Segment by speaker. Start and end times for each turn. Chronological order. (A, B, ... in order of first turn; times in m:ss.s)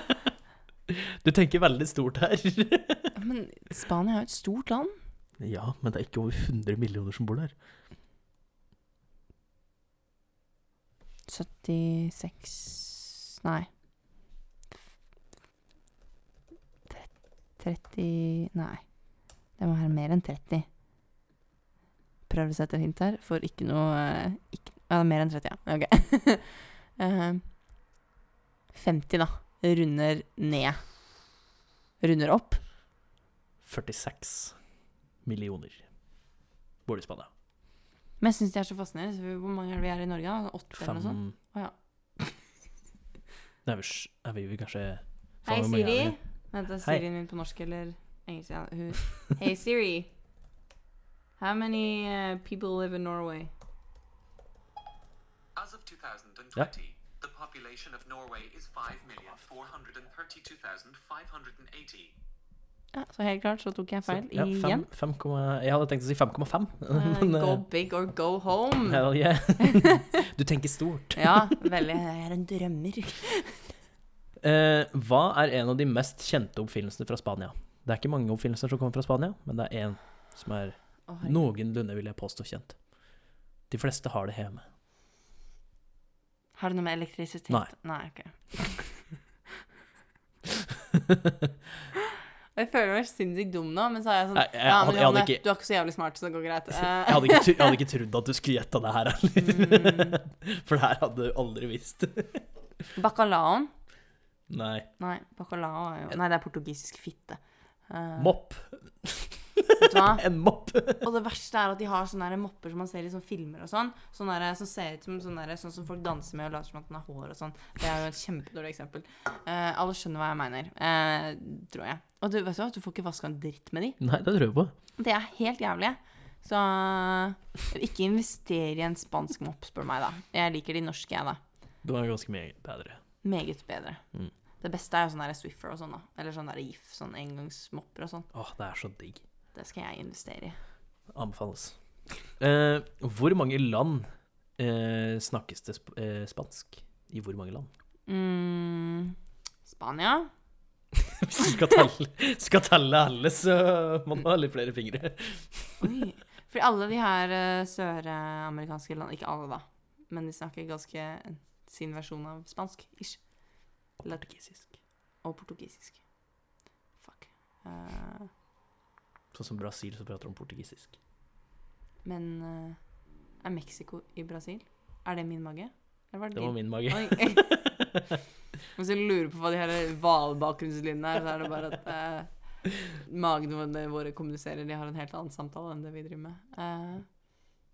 0:00.9-0:03.1 A
0:03.1-0:05.0 B
0:05.4-0:07.5 A
0:11.3-0:13.7 B
0:16.9-0:18.9 B
0:19.6-0:20.7 B
0:22.3-0:27.4 B
0:28.7-0:30.8 B
0:32.0-0:32.6 B
0:33.6-0:34.6 A
0:35.2-0:35.9 A
0:36.9-0:37.3 A
0:38.2-0:41.8 B
0:40.8-0:41.4 A
0:43.6-0:46.2 A
0:45.4-0:50.1 B
0:51.4-0:53.5 B
0:55.6-1:02.1 C
1:02.9-1:04.8 B
1:04.1-1:07.6 A
1:06.9-1:09.1 B
1:08.9-1:11.4 A
1:09.6-1:10.0 B
1:11.2-1:13.7 B
1:14.4-1:22.8 A
1:21.1-1:21.4 B
1:23.7-1:24.6 A
1:26.6-1:28.9 B
1:30.9-1:31.5 A
1:32.5-1:37.8 B
1:34.4-1:35.4 A
1:37.0-1:42.4 A
1:39.4-1:40.2 B
1:43.0-1:43.7 B
1:44.5-1:44.9 A
1:45.0-1:48.3 B
1:48.2-1:51.0 A
1:49.8-1:50.3 B
1:50.9-2:04.0 B
2:04.0-2:04.7 A
2:05.0-2:11.4 B
2:11.8-2:13.0 A
2:13.2-2:14.0 B
2:14.6-2:18.3 B
2:18.3-2:19.2 A
2:19.5-2:20.6 B
2:21.1-2:21.8 A
2:22.4-2:27.7 A
2:28.1-2:30.3 B
2:31.1-2:35.8 A
2:35.8-2:43.3 B
2:44.0-2:44.3 B
2:44.0-2:44.7 A
2:45.2-2:46.0 B
2:47.0-2:48.3 B
2:49.3-2:51.0 A
2:52.0-2:52.9 B
2:53.4-2:57.7 B
2:56.3-2:58.0 A
2:58.8-3:07.1 B